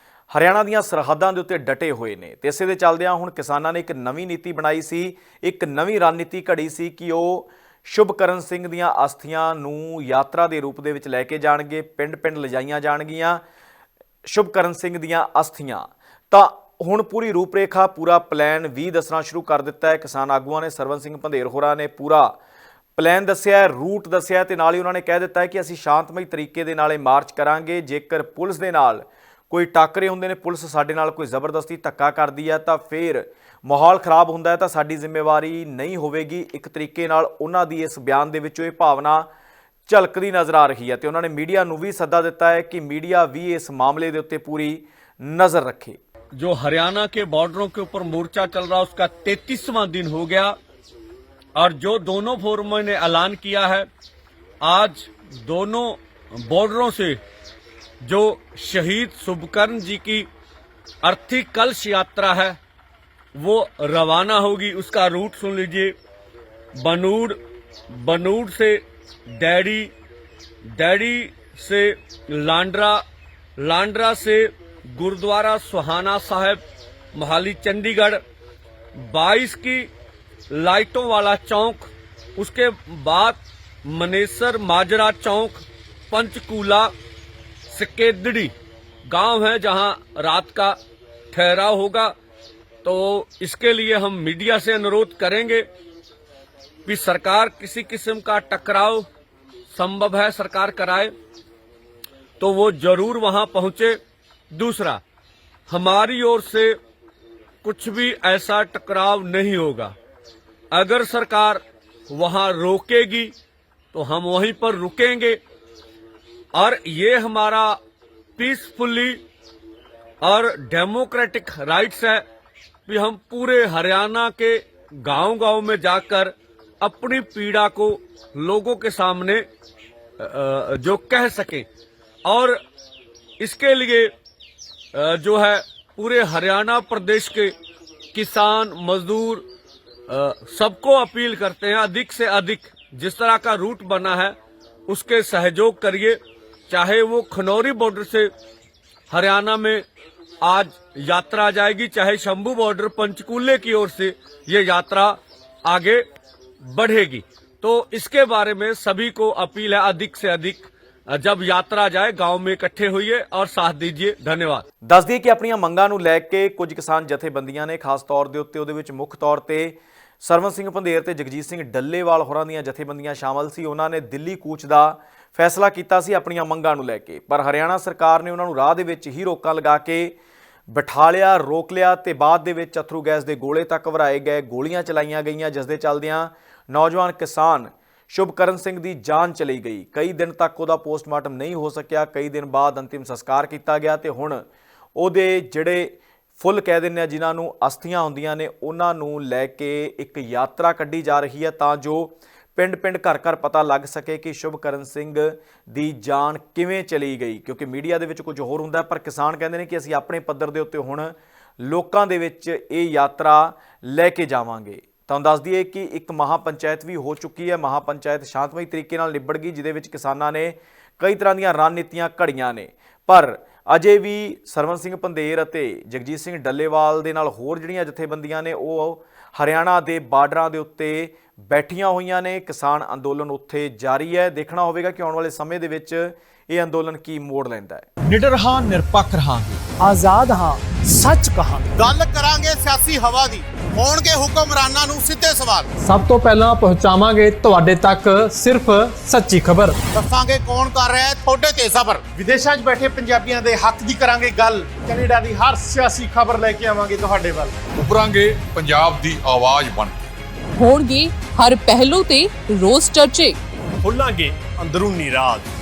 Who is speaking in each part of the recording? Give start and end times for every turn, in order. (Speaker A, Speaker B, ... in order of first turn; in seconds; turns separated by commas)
Speaker A: 0.3-13.4, Speaker A: 14.2-22.4, Speaker A: 22.9-39.3, Speaker A: 39.9-46.0, Speaker B: 46.3-50.5, Speaker B: 51.5-53.9, Speaker B: 54.6-57.2, Speaker B: 58.0-60.3, Speaker B: 61.0-62.6, Speaker B: 63.4-65.9, Speaker B: 66.8-67.4, Speaker B: 67.9-68.8, Speaker B: 69.3-69.9, Speaker B: 70.7-73.0, Speaker B: 73.6-76.6, Speaker B: 77.1-78.2, Speaker B: 79.0-79.9, Speaker B: 80.5-86.9, Speaker B: 87.7-88.5, Speaker B: 89.1-90.8, Speaker B: 91.3-92.1, Speaker B: 92.8-95.7, Speaker B: 96.9-99.0, Speaker B: 99.7-101.1, Speaker B: 102.4-104.0, Speaker B: 104.5-105.0, Speaker B: 105.7-106.8, Speaker B: 107.6-109.9, Speaker B: 110.7-113.3, Speaker B: 113.9-115.4, Speaker B: 116.6-117.8, Speaker B: 118.4-119.2, Speaker B: 120.2-122.2, Speaker B: 122.9-129.4, Speaker B: 130.2-131.7, Speaker B: 132.2-132.6, Speaker B: 133.4-134.1, Speaker B: 134.9-137.5, Speaker B: 138.1-139.4, Speaker B: 140.1-144.3, Speaker B: 144.9-146.2, Speaker B: 146.7-148.3, Speaker B: 149.1-149.8, Speaker B: 150.4-156.0, Speaker B: 156.6-164.7, Speaker A: 164.8-180.1, Speaker A: 180.7-194.4, Speaker A: 195.0-239.6, Speaker C: 239.8-241.7, Speaker D: 241.8-245.7, Speaker C: 245.8-249.8, Speaker D: 249.9-252.1, Speaker E: 252.1-257.5, Speaker F: 257.8-259.9, Speaker G: 260.6-263.4, Speaker E: 263.9-265.4